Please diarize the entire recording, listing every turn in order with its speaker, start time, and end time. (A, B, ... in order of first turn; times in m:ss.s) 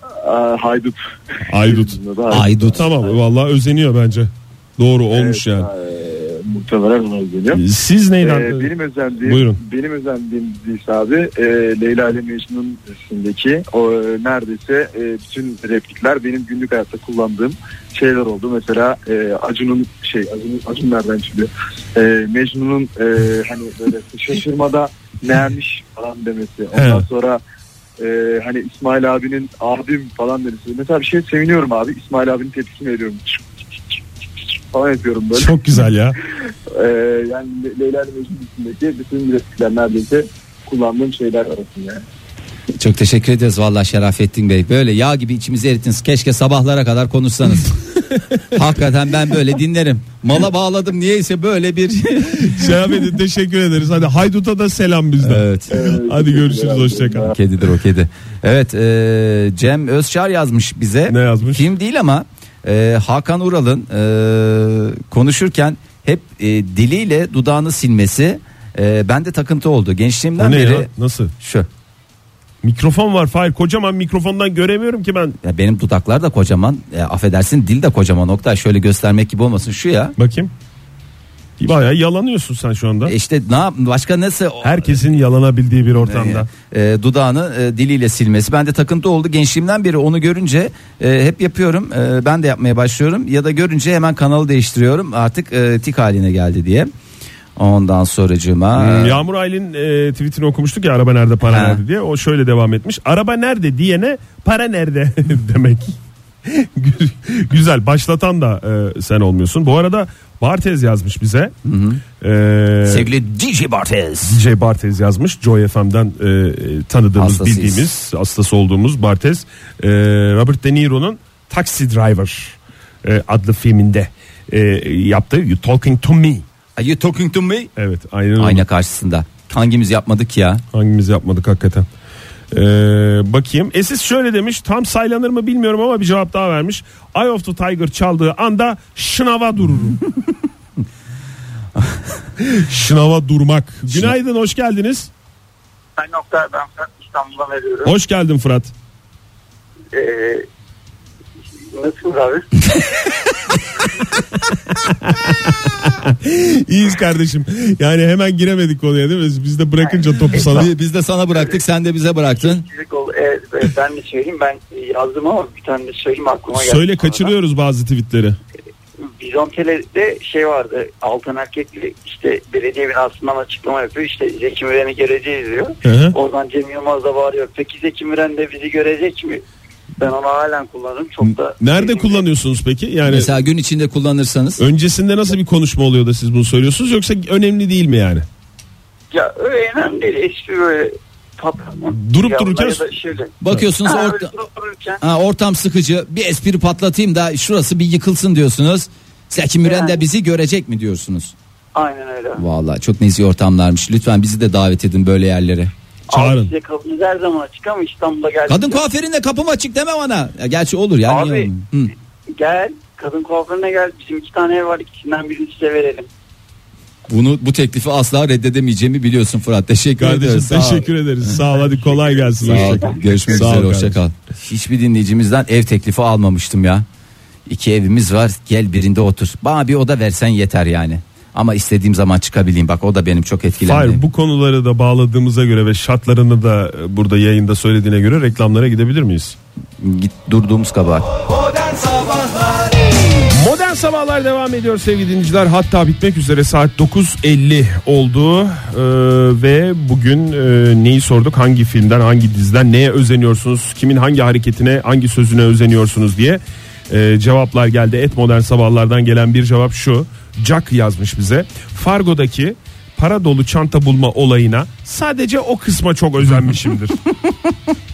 0:00.2-0:03.1 A
0:01.5-0:05.7 B
0:02.3-0:02.9 C
0:05.1-0:07.6 A
0:07.5-0:09.6 B
0:08.2-0:27.4 A
0:26.8-0:27.1 B
0:28.0-0:34.0 A
0:34.7-0:35.6 A
0:35.3-0:36.2 B
0:36.7-0:42.0 A
0:42.8-0:47.8 C
0:48.5-0:52.7 C
0:52.4-0:57.4 B
0:55.2-0:55.8 C
0:55.7-0:57.3 A
0:57.3-1:10.9 C
1:01.1-1:01.7 B
1:10.4-1:11.3 B
1:11.4-1:11.7 C
1:12.6-1:15.4 B
1:15.4-1:20.2 C
1:20.2-1:20.5 B
1:21.6-1:23.1 B
1:23.0-1:25.0 C
1:24.6-1:26.5 B
1:26.0-1:36.9 C
1:37.6-1:39.2 C
1:38.8-1:51.5 B
1:41.5-1:41.8 C
1:51.6-1:52.0 C
1:52.2-1:53.1 B
1:52.8-1:54.4 C
1:54.2-2:06.4 B
1:57.2-1:57.9 C
2:06.8-2:07.7 C
2:07.8-2:08.6 B
2:08.4-2:10.6 C
2:10.7-2:11.9 B
2:12.5-2:20.0 B
2:22.4-2:25.1 B
2:26.0-2:27.9 D
2:27.8-2:28.7 B
2:29.9-2:30.5 D
2:31.5-2:32.4 D
2:34.7-2:40.7 B
2:39.8-2:40.4 D
2:40.3-2:42.6 C
2:42.4-2:47.3 D
2:46.5-2:48.4 B
2:49.0-2:59.4 D
2:55.8-2:56.2 B
3:00.0-3:02.2 D
3:01.3-3:03.3 B
3:03.1-3:04.6 C
3:04.6-3:08.3 B
3:09.1-3:15.0 D
3:11.9-3:13.0 B
3:13.4-3:14.3 C
3:15.0-3:21.3 C
3:19.6-3:20.0 D
3:21.8-3:22.4 D
3:22.4-3:25.7 C
3:26.1-3:28.8 D
3:26.1-3:26.5 B
3:28.5-3:31.9 C
3:31.0-3:31.5 D
3:32.3-3:36.1 D
3:37.1-3:40.9 C
3:40.0-3:44.0 B
3:42.0-3:42.9 D
3:42.4-3:46.8 C
3:47.5-3:54.0 C
3:53.6-3:59.4 B
3:59.8-4:01.1 C
4:03.2-4:27.0 B